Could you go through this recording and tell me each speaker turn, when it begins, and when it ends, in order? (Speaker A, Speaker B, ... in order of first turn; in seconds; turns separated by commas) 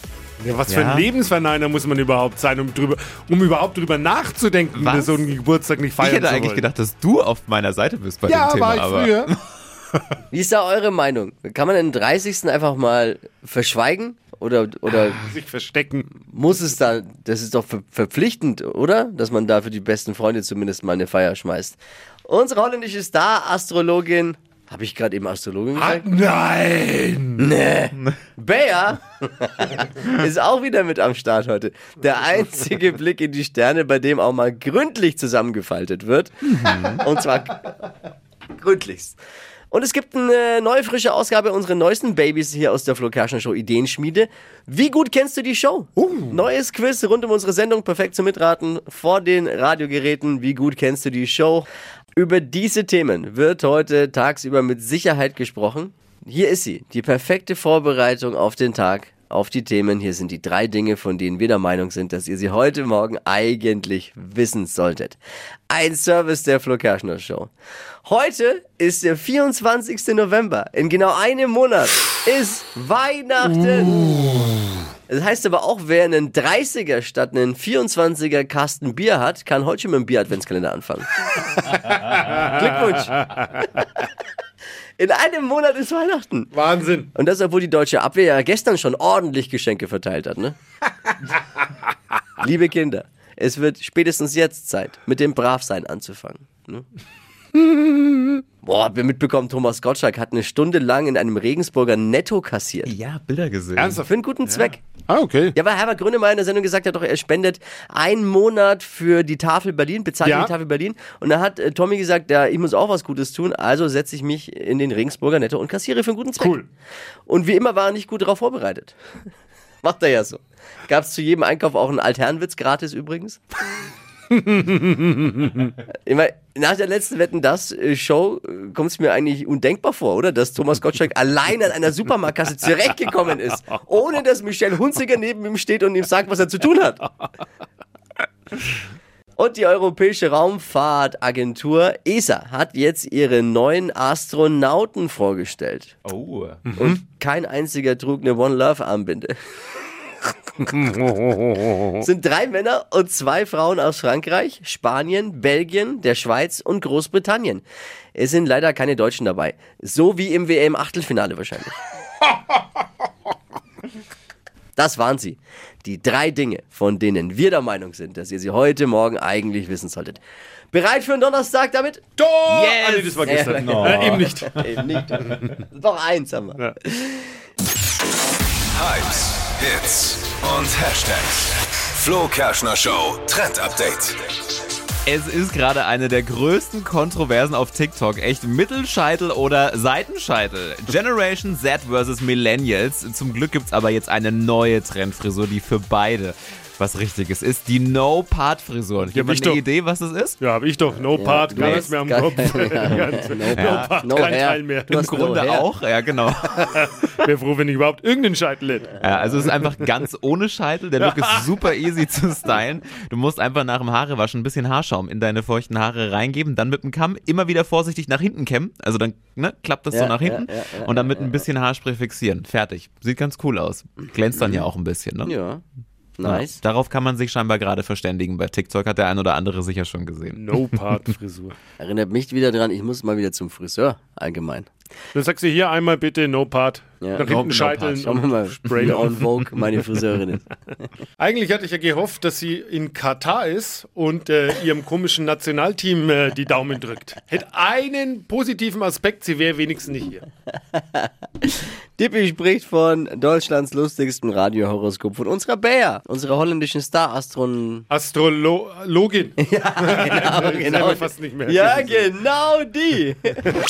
Speaker A: 0.4-6.6, Speaker B: 0.7-1.1, Speaker B: 4.7-5.2, Speaker B: 6.0-9.3, Speaker A: 8.3-9.3, Speaker C: 10.3-15.2, Speaker A: 14.9-16.1, Speaker C: 16.3-26.1, Speaker A: 25.8-27.5, Speaker C: 27.4-37.9, Speaker B: 36.5-37.0, Speaker C: 38.6-39.2, Speaker C: 39.7-67.5, Speaker A: 46.0-46.4, Speaker C: 68.0-74.2, Speaker C: 75.1-81.1, Speaker A: 82.1-82.4, Speaker C: 82.3-83.7, Speaker C: 85.0-86.5, Speaker A: 86.5-87.1, Speaker C: 87.1-90.5, Speaker C: 92.4-96.8, Speaker C: 97.5-102.9, Speaker B: 102.8-104.0, Speaker A: 103.8-105.5, Speaker C: 104.0-104.8, Speaker C: 105.5-116.6, Speaker A: 110.2-110.5, Speaker A: 116.4-116.7, Speaker C: 117.3-119.0, Speaker C: 119.8-123.4, Speaker A: 124.3-125.7, Speaker C: 126.0-137.0, Speaker C: 139.4-145.9, Speaker B: 146.0-146.6, Speaker A: 146.7-147.0, Speaker C: 146.8-149.3, Speaker A: 150.8-151.9, Speaker C: 152.0-157.6, Speaker C: 158.1-161.7, Speaker C: 164.8-170.2, Speaker C: 170.7-172.0, Speaker A: 172.2-174.5, Speaker B: 172.4-174.2, Speaker C: 173.2-177.3, Speaker D: 178.7-184.2, Speaker B: 185.1-200.4, Speaker A: 199.0-199.6, Speaker A: 200.4-205.1, Speaker C: 201.1-205.7, Speaker B: 201.6-201.8, Speaker B: 203.5-204.2, Speaker B: 204.9-206.8, Speaker A: 206.8-209.9, Speaker B: 209.0-225.3, Speaker A: 211.0-211.5, Speaker C: 219.9-221.4, Speaker C: 224.3-224.7, Speaker C: 225.2-225.6, Speaker C: 226.2-226.6, Speaker B: 226.2-230.7, Speaker A: 230.3-231.5, Speaker C: 231.8-234.7, Speaker A: 235.1-239.3, Speaker C: 237.0-240.4, Speaker A: 241.2-250.2, Speaker C: 250.7-257.9, Speaker A: 257.9-262.1, Speaker C: 259.4-263.4